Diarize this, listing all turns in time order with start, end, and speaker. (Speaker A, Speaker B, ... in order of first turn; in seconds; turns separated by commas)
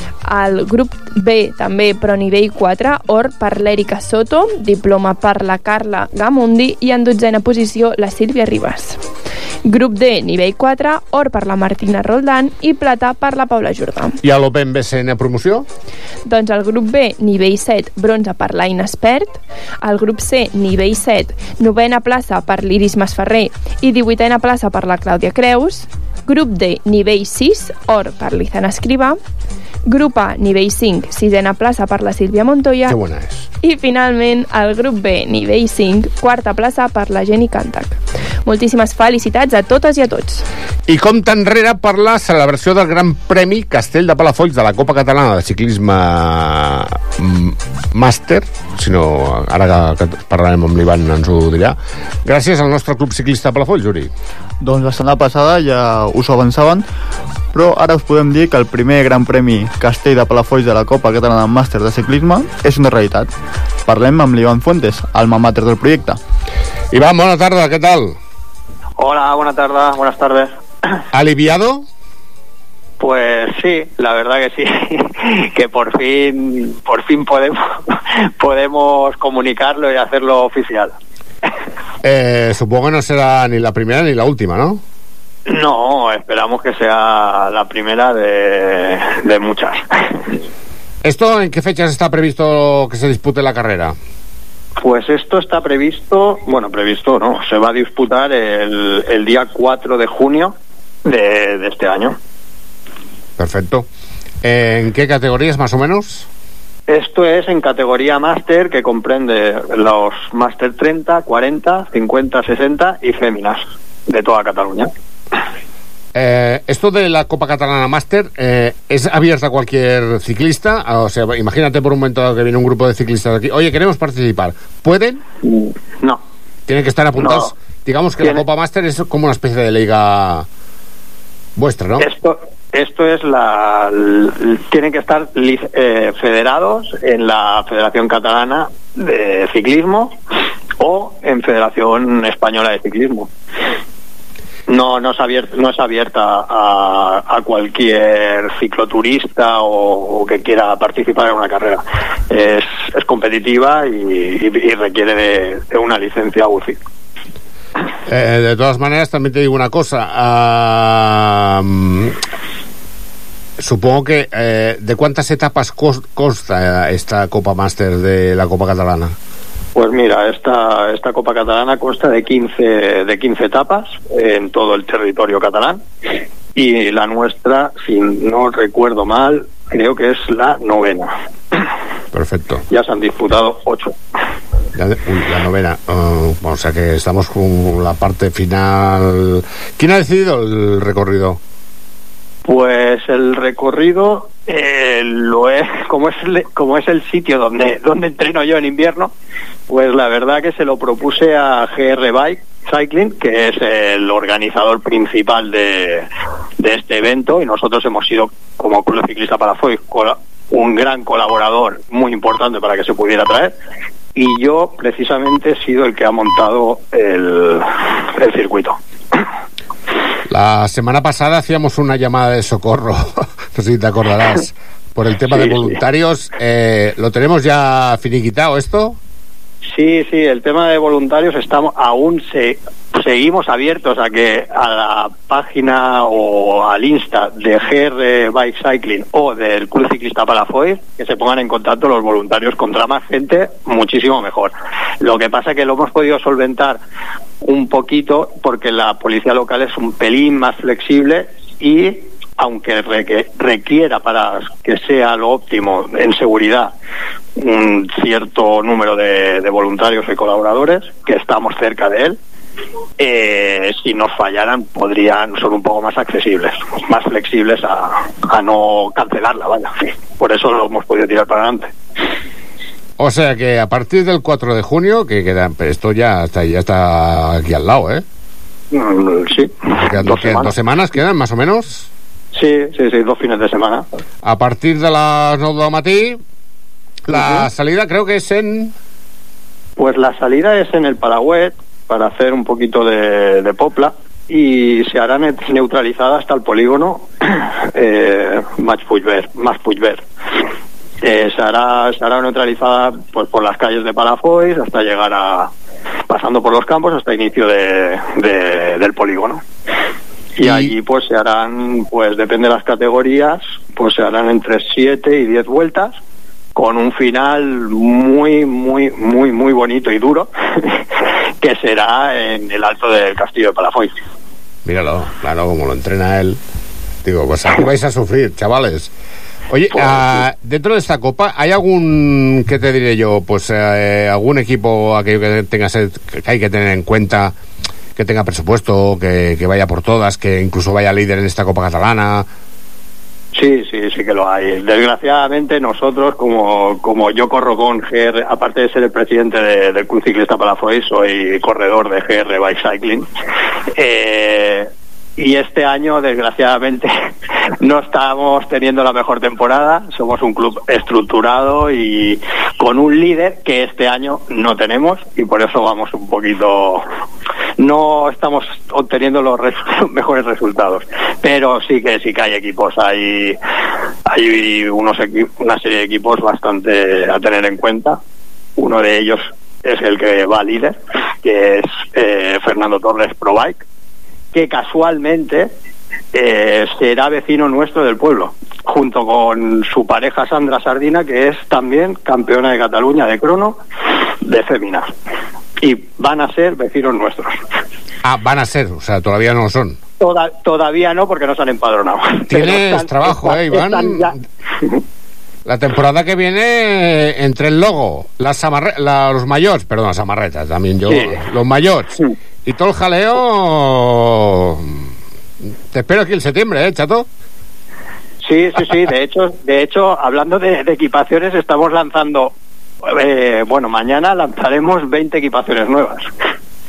Speaker A: 0.2-9.0, Speaker A: 9.6-14.2, Speaker B: 14.2-15.7, Speaker A: 16.2-29.1, Speaker A: 29.9-33.0, Speaker B: 32.9-33.5, Speaker A: 33.6-40.4, Speaker B: 40.9-54.1, Speaker C: 54.6-56.9, Speaker C: 57.5-63.3, Speaker C: 63.9-66.2, Speaker B: 66.9-68.2, Speaker D: 69.0-70.5, Speaker B: 71.1-71.8, Speaker D: 73.0-80.9, Speaker B: 82.0-84.8, Speaker D: 85.5-90.3, Speaker B: 91.0-94.0, Speaker D: 94.8-102.2, Speaker B: 103.4-103.9, Speaker B: 104.4-106.3, Speaker D: 106.9-114.9, Speaker B: 116.1-125.2, Speaker D: 125.4-126.2, Speaker B: 126.7-130.4, Speaker D: 127.2-127.5, Speaker B: 131.6-132.1, Speaker D: 132.0-140.2, Speaker D: 140.8-143.3, Speaker D: 144.7-156.8, Speaker B: 158.1-162.2, Speaker B: 163.6-169.1, Speaker D: 169.7-175.8, Speaker D: 176.6-181.6, Speaker B: 182.1-182.6, Speaker D: 182.7-183.9, Speaker B: 184.7-191.4, Speaker D: 192.4-199.1, Speaker D: 199.7-206.1, Speaker D: 206.6-213.5, Speaker D: 214.2-219.2, Speaker B: 220.3-229.0, Speaker D: 225.2-225.8, Speaker D: 229.7-246.8, Speaker D: 247.4-256.7, Speaker D: 257.4-262.2, Speaker D: 263.0-271.7, Speaker B: 273.0-278.0, Speaker D: 278.7-280.5, Speaker B: 279.8-281.9, Speaker D: 282.3-283.9, Speaker B: 284.2-286.2, Speaker B: 287.1-288.7, Speaker D: 287.1-287.5, Speaker D: 289.8-300.0, Speaker D: 301.0-305.5, Speaker D: 306.1-309.4, Speaker D: 310.4-316.0, Speaker B: 310.4-310.7, Speaker D: 316.6-320.8, Speaker D: 321.4-324.0, Speaker B: 324.6-326.4, Speaker B: 327.0-328.9, Speaker B: 329.5-337.3, Speaker D: 329.7-330.2, Speaker B: 337.9-342.2, Speaker D: 343.3-353.1, Speaker D: 353.8-356.9, Speaker D: 357.6-366.8, Speaker D: 367.6-373.4, Speaker D: 374.1-378.0, Speaker D: 378.6-383.6, Speaker D: 384.3-385.5, Speaker D: 386.1-393.6, Speaker D: 394.2-394.9, Speaker D: 395.6-397.4, Speaker B: 398.0-399.8, Speaker D: 400.0-404.8, Speaker B: 402.3-404.1, Speaker B: 405.4-414.9, Speaker D: 410.9-411.2, Speaker B: 415.7-417.1, Speaker D: 418.2-422.3, Speaker D: 422.8-426.1